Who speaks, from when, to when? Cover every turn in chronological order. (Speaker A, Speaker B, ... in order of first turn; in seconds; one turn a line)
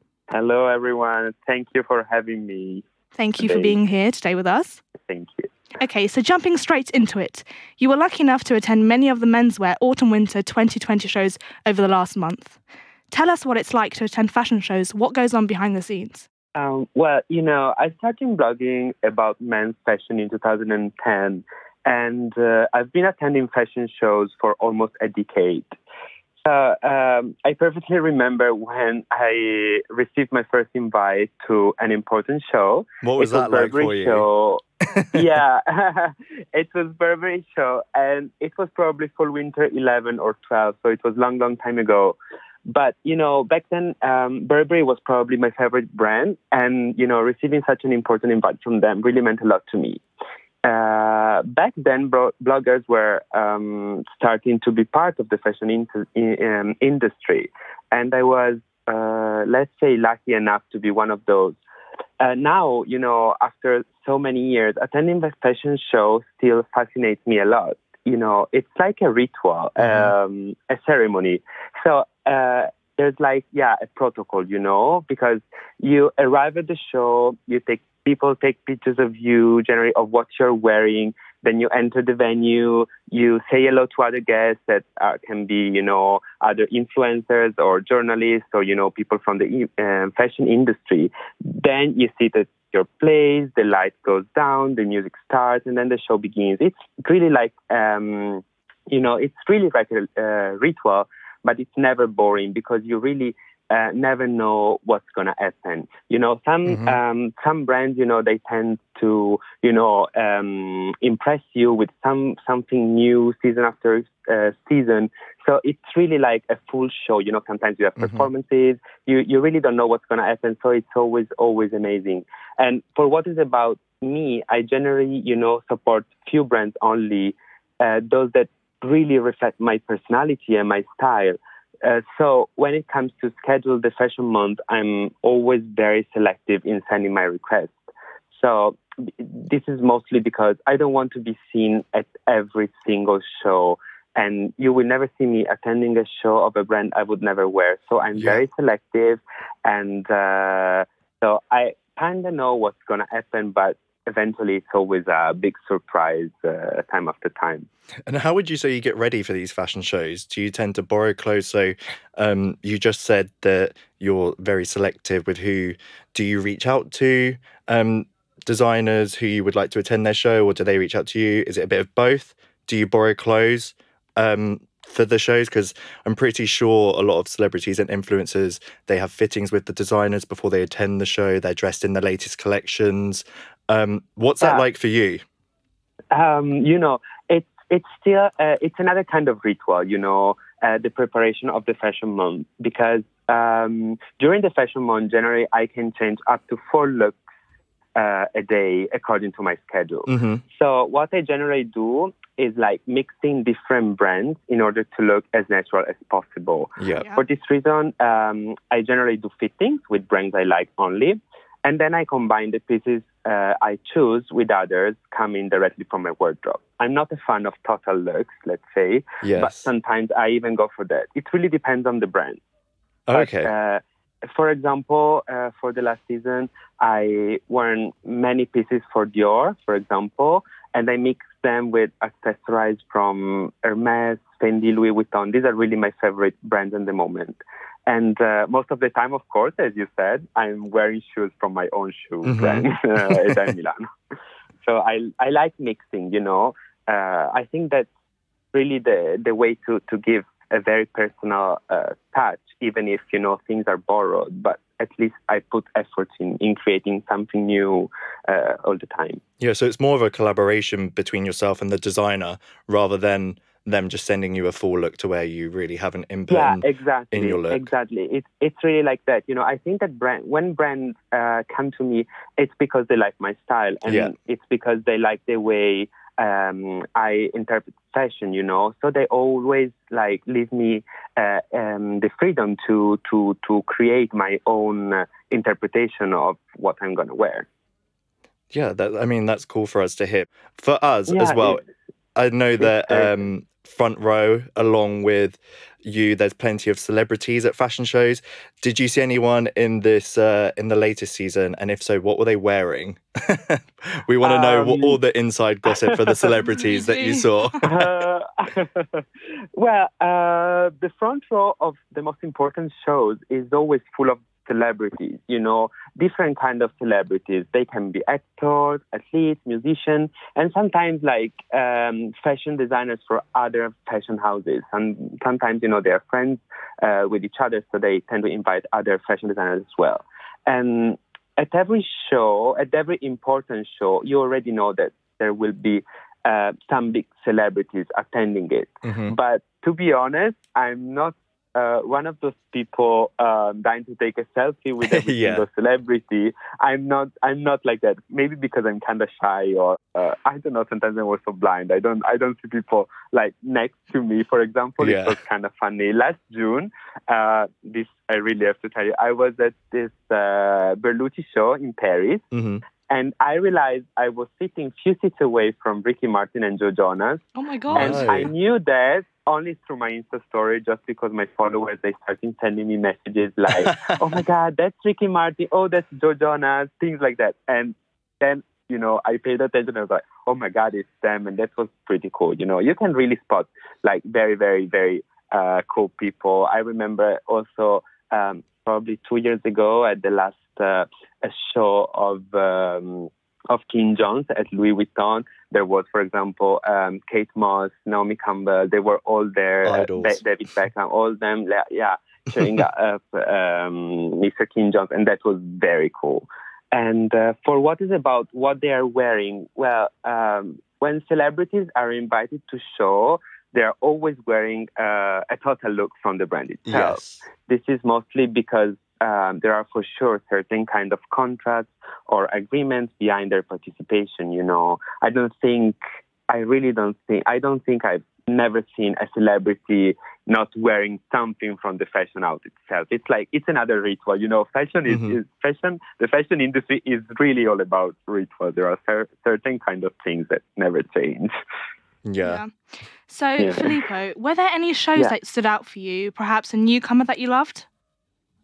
Speaker A: 0.3-2.8
Speaker B: 3.1-4.8
Speaker A: 3.4-3.8
Speaker A: 5.0-5.5
Speaker B: 5.8-12.6
Speaker B: 13.1-16.2
Speaker A: 16.5-25.7
Speaker A: 26.4-50.0
Speaker C: 33.0-34.3
Speaker C: 35.0-35.2
Speaker A: 50.6-61.6
Speaker A: 62.2-137.8
Speaker C: 69.8-70.1
Speaker C: 106.7-107.0
Speaker C: 118.0-118.3
Speaker A: 138.3-157.7
Speaker C: 148.2-148.4
Speaker C: 158.1-185.2
Speaker A: 186.1-197.2
Speaker A: 197.9-222.4
Speaker C: 200.1-200.4
Speaker C: 206.8-207.1
Speaker B: 207.0-207.2
Speaker C: 219.2-219.7
Speaker C: 223.1-223.5
Speaker A: 223.1-243.9
Speaker C: 242.2-243.6
Speaker A: 244.6-247.9
Speaker A: 248.5-259.2
Speaker C: 259.4-267.7
Speaker A: 266.3-287.5
Speaker C: 273.9-274.1
Speaker C: 288.5-291.6
Speaker A: 291.1-291.6
Speaker C: 292.1-307.9
Speaker A: 292.6-293.2
Speaker A: 304.2-305.0
Speaker A: 305.7-306.3
Speaker B: 306.6-307.3
Speaker A: 307.6-309.1
Speaker A: 309.6-362.2
Speaker C: 338.9-339.1
Speaker C: 344.8-345.5
Speaker C: 354.8-355.2
Speaker C: 362.3-362.6
Speaker A: 362.9-367.2
Speaker B: 367.4-368.0
Speaker C: 367.7-368.3
Speaker A: 367.8-425.8
Speaker C: 373.7-374.0
Speaker C: 399.6-400.2
Speaker C: 416.7-417.2
Speaker A: 426.3-441.3
Speaker C: 434.9-435.2
Speaker C: 442.1-442.4
Speaker B: 442.2-442.5
Speaker B: 443.1-447.7
Speaker A: 443.4-443.8